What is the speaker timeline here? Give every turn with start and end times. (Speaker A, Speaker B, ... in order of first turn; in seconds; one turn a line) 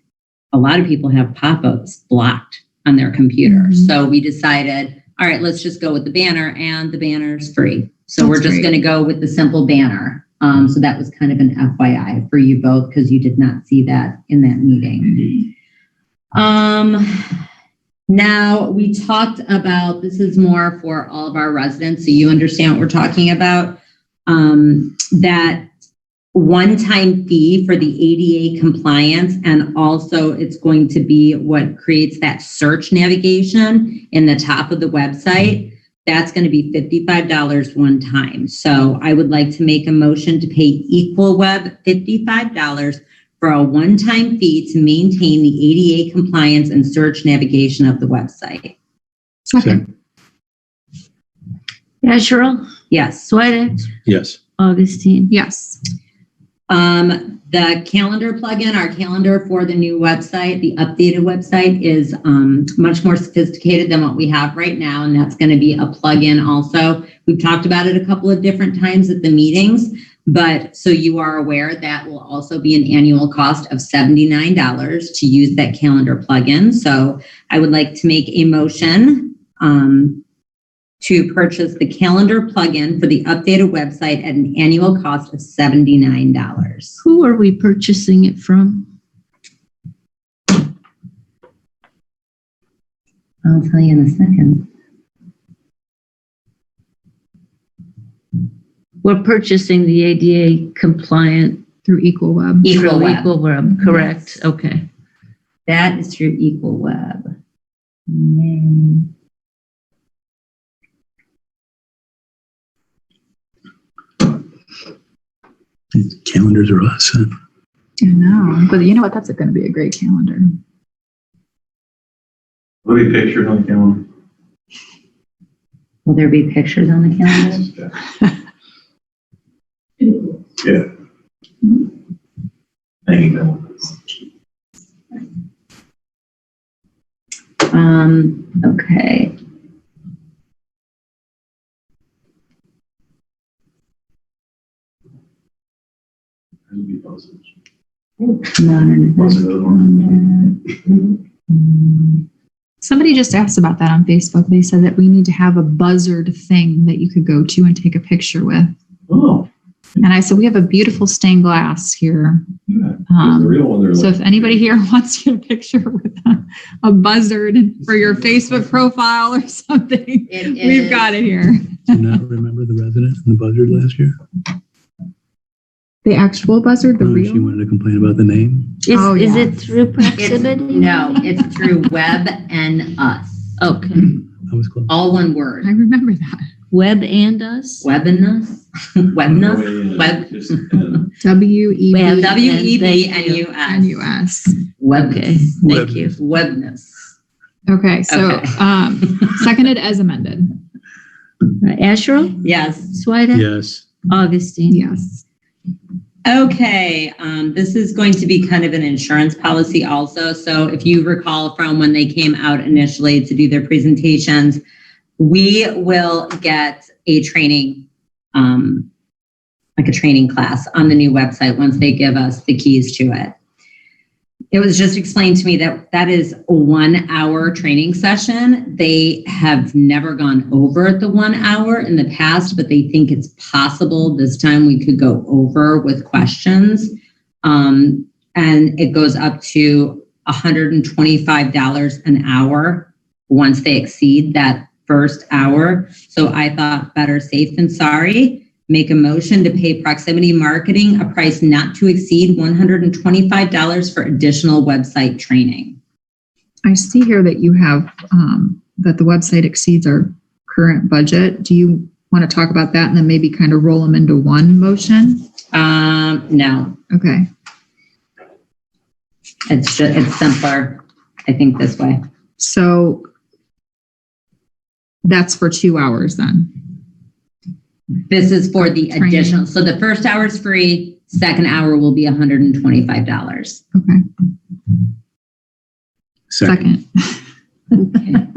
Speaker A: 0.5-15.5
Speaker B: 3.5-3.9
Speaker B: 8.2-8.7
Speaker A: 16.3-17.3
Speaker A: 18.1-25.7
Speaker A: 26.3-48.8
Speaker B: 49.5-49.8
Speaker C: 52.0-52.7
Speaker A: 52.9-53.3
Speaker C: 53.2-53.9
Speaker D: 54.1-54.4
Speaker C: 54.6-55.3
Speaker B: 55.3-55.8
Speaker A: 56.7-80.2
Speaker A: 81.0-87.0
Speaker C: 87.0-88.9
Speaker A: 93.5-94.7
Speaker C: 99.0-101.6
Speaker B: 101.9-102.7
Speaker A: 102.6-103.3
Speaker C: 102.7-104.8
Speaker A: 105.7-107.3
Speaker A: 108.1-109.1
Speaker D: 115.9-117.3
Speaker B: 118.0-120.5
Speaker E: 122.8-124.1
Speaker A: 126.1-127.7
Speaker E: 127.5-127.9
Speaker E: 130.6-130.9
Speaker E: 133.1-133.9
Speaker A: 137.7-139.3
Speaker E: 146.7-147.4
Speaker A: 148.5-151.1
Speaker E: 149.2-149.9
Speaker A: 151.6-151.9
Speaker B: 152.8-158.7
Speaker E: 159.1-159.5
Speaker B: 160.0-162.4
Speaker E: 162.7-164.7
Speaker B: 163.1-172.0
Speaker A: 170.3-171.2
Speaker D: 171.9-174.2
Speaker B: 176.0-177.6
Speaker D: 177.0-178.8
Speaker C: 178.8-181.2
Speaker B: 178.9-179.6
Speaker A: 180.2-183.5
Speaker C: 183.6-184.1
Speaker D: 184.5-184.9
Speaker A: 184.9-185.7
Speaker B: 185.6-186.5
Speaker C: 186.7-187.8
Speaker A: 187.8-191.0
Speaker E: 189.3-191.1
Speaker B: 191.2-192.4
Speaker C: 191.9-193.4
Speaker A: 192.2-194.1
Speaker B: 193.7-194.6
Speaker A: 194.8-197.0
Speaker C: 194.9-196.1
Speaker D: 195.6-196.1
Speaker B: 197.7-200.5
Speaker A: 198.1-199.3
Speaker C: 201.6-202.4
Speaker A: 202.4-203.0
Speaker C: 202.9-203.5
Speaker D: 203.3-203.8
Speaker C: 204.1-204.8
Speaker B: 204.7-205.2
Speaker A: 206.3-214.6
Speaker A: 215.2-218.9
Speaker A: 219.8-223.3
Speaker A: 224.5-255.8
Speaker B: 256.7-265.2
Speaker A: 265.5-266.8
Speaker B: 266.9-267.3
Speaker A: 269.5-272.0
Speaker B: 272.4-273.1
Speaker B: 275.1-276.5
Speaker A: 278.1-283.6
Speaker B: 278.6-279.4
Speaker B: 283.8-284.0
Speaker D: 286.3-286.7
Speaker B: 286.4-287.2
Speaker C: 287.8-288.2